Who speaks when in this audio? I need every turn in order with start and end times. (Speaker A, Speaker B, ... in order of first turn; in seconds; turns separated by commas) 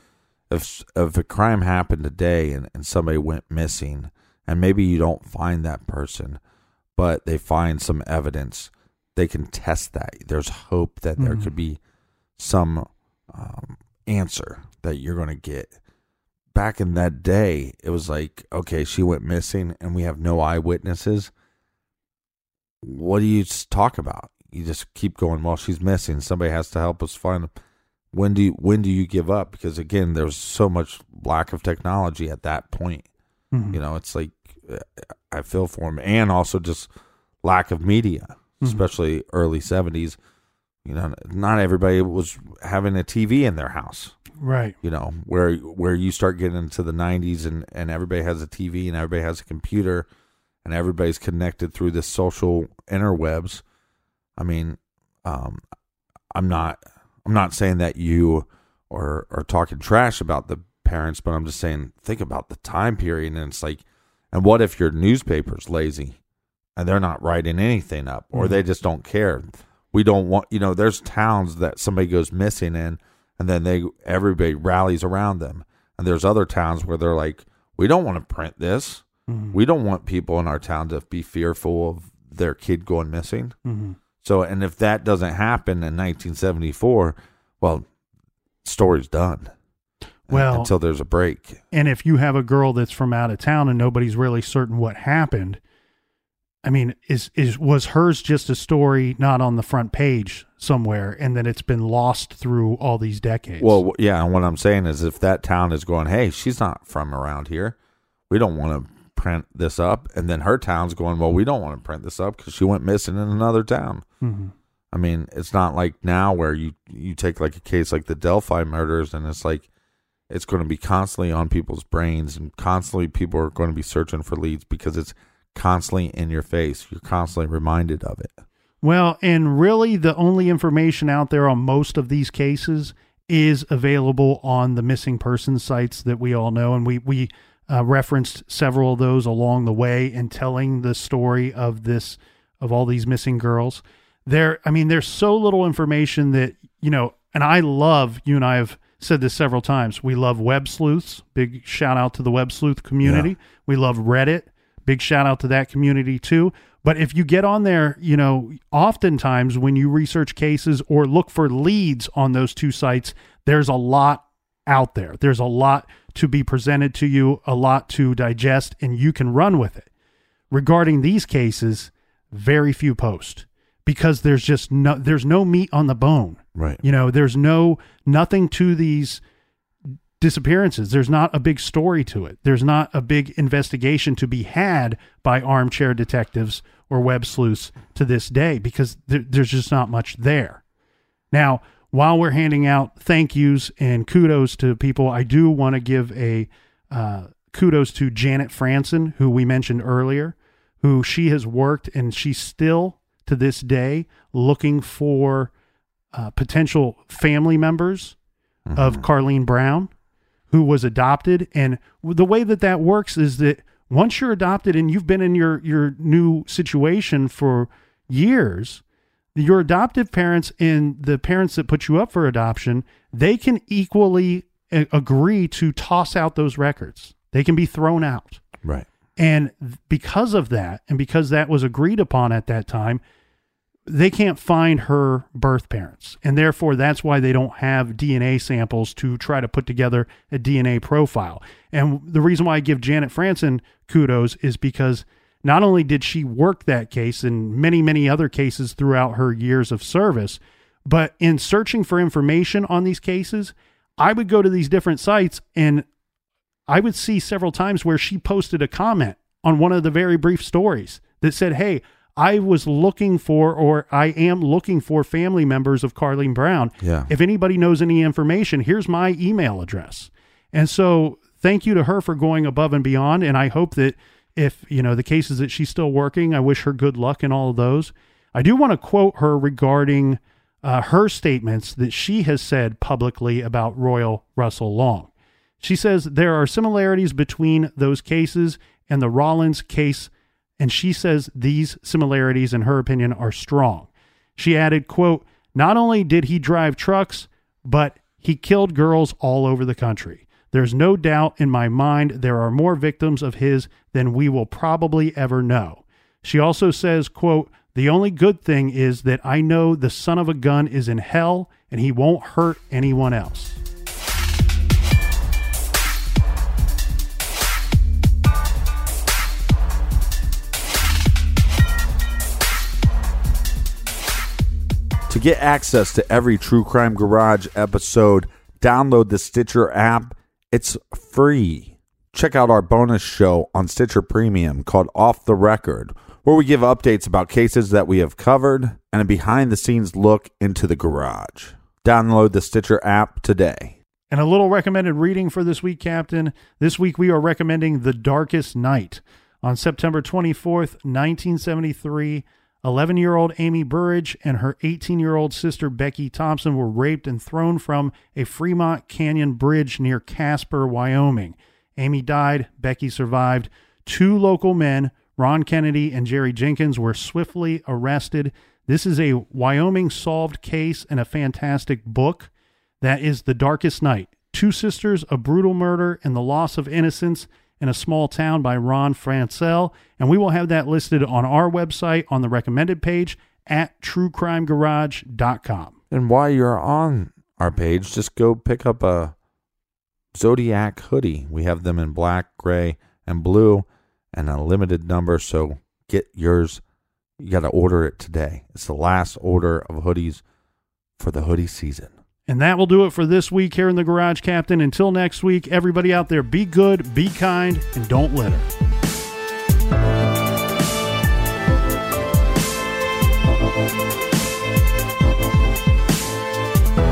Speaker A: 0.5-6.4, Speaker A: 7.0-11.8, Speaker B: 11.2-11.5, Speaker A: 12.4-15.7, Speaker A: 16.5-21.3, Speaker A: 22.8-27.5, Speaker A: 28.1-33.0, Speaker B: 33.5-33.8, Speaker A: 33.7-36.9, Speaker A: 37.4-40.2, Speaker A: 40.9-44.2, Speaker B: 44.4-44.8, Speaker A: 44.8-50.1, Speaker A: 50.6-53.6, Speaker A: 54.4-55.6, Speaker A: 56.3-66.2, Speaker A: 66.8-83.5, Speaker B: 79.3-79.6, Speaker B: 83.7-84.0, Speaker A: 84.2-87.9, Speaker A: 88.6-89.5, Speaker A: 90.3-91.6, Speaker B: 90.3-90.7, Speaker B: 91.7-95.6, Speaker B: 96.6-103.8, Speaker A: 103.6-107.8, Speaker A: 108.3-114.0, Speaker B: 114.2-114.5, Speaker A: 114.9-119.7, Speaker A: 120.3-128.4, Speaker B: 128.8-169.9, Speaker A: 153.0-153.3, Speaker B: 170.5-179.2, Speaker A: 176.6-176.8, Speaker B: 180.2-190.6, Speaker B: 191.3-205.5, Speaker B: 206.1-208.2, Speaker A: 208.7-209.1, Speaker B: 208.8-209.9, Speaker B: 210.5-218.8, Speaker B: 219.3-228.4, Speaker B: 229.2-233.0, Speaker B: 233.9-255.8, Speaker B: 256.7-285.1, Speaker A: 266.8-267.1, Speaker B: 285.6-313.6, Speaker A: 325.1-343.8, Speaker B: 344.1-372.3, Speaker B: 372.8-385.8, Speaker A: 385.9-389.1, Speaker A: 390.1-396.6, Speaker A: 397.2-400.2, Speaker A: 401.0-401.9, Speaker B: 402.3-408.5